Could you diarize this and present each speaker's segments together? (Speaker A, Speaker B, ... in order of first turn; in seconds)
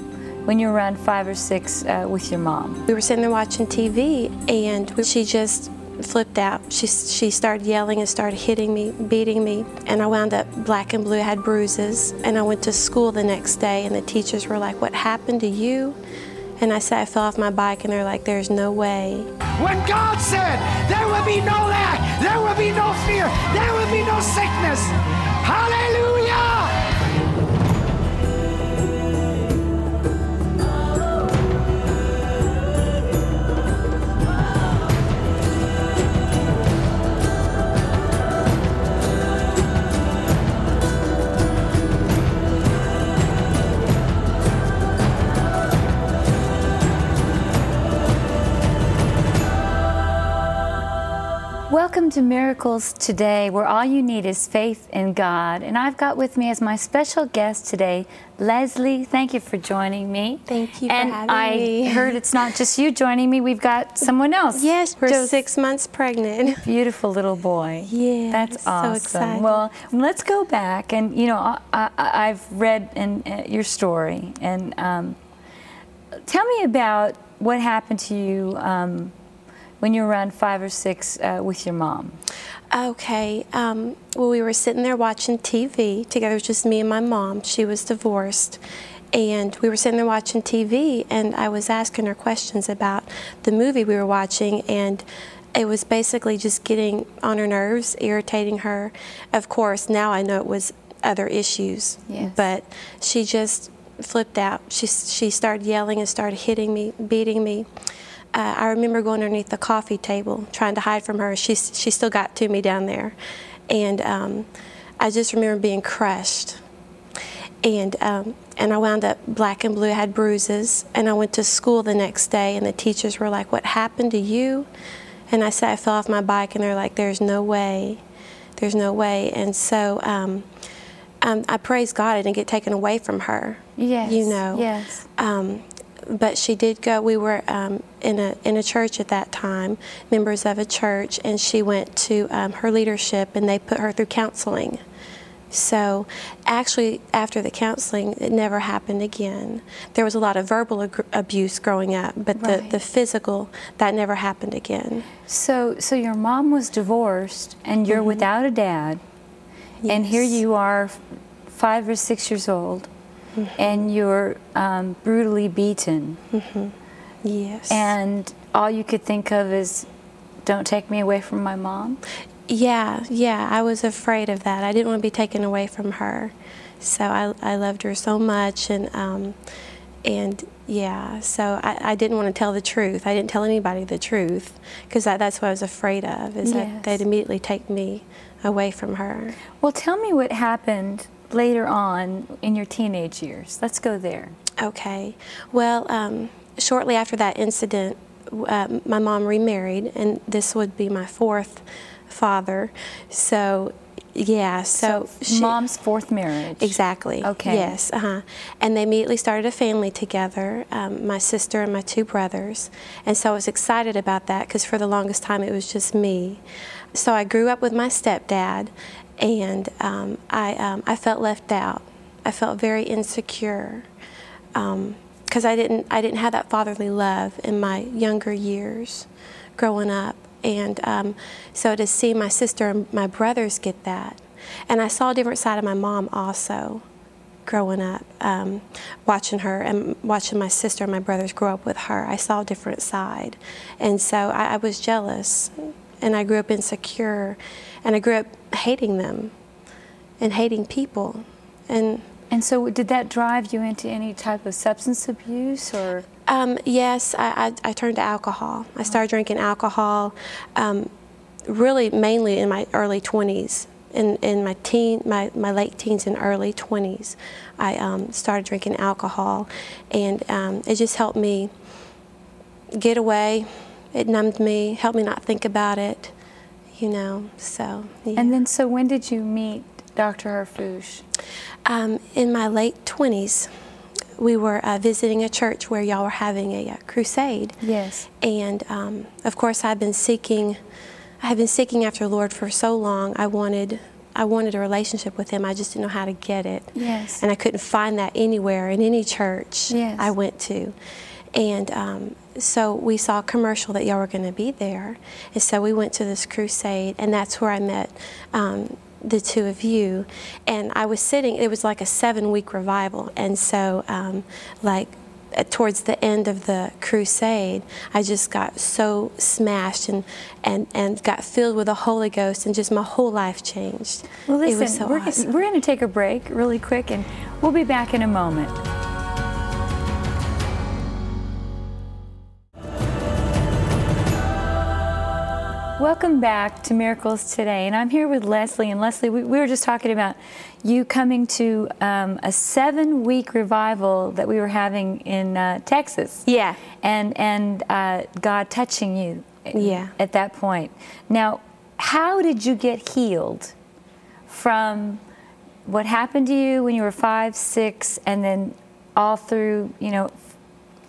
Speaker A: 0.5-2.9, 51.7-65.4, 66.6-75.2, 76.3-79.1, 79.8-82.2, 102.1-102.4, 133.8-135.1, 152.4-152.8, 155.3-159.0, 159.9-162.9, 163.6-166.2, 167.7-169.9, 170.4-172.0, 186.4-187.0, 189.6-194.4, 204.8-207.7, 252.3-256.1, 278.2-281.0, 287.6-288.1, 296.8-297.2, 299.7-300.1, 324.3-328.6, 335.8-346.2, 346.8-353.5, 354.3-355.0, 355.7-360.2
Speaker B: 2.9-16.0, 16.6-19.3, 60.5-62.2, 64.5-66.6, 67.9-69.6, 82.7-88.6, 89.1-107.7, 108.3-113.2, 113.7-114.5, 115.0-116.6, 117.6-124.7, 125.3-128.0, 128.6-130.5, 131.2-144.8, 145.5-155.1, 157.9-158.2, 159.8-160.4, 163.3-163.7, 166.3-167.9, 172.5-179.4, 180.0-189.4, 194.6-205.6, 206.6-216.4, 216.9-223.9, 224.6-236.8, 237.5-249.3, 250.2-252.1, 256.3-260.9, 261.5-271.5, 272.8-276.1, 276.7-278.3, 281.7-283.5, 284.2-287.6, 288.2-290.6, 291.2-300.7, 301.3-325.3, 346.3-346.6, 349.6-349.9
Speaker C: 19.5-26.8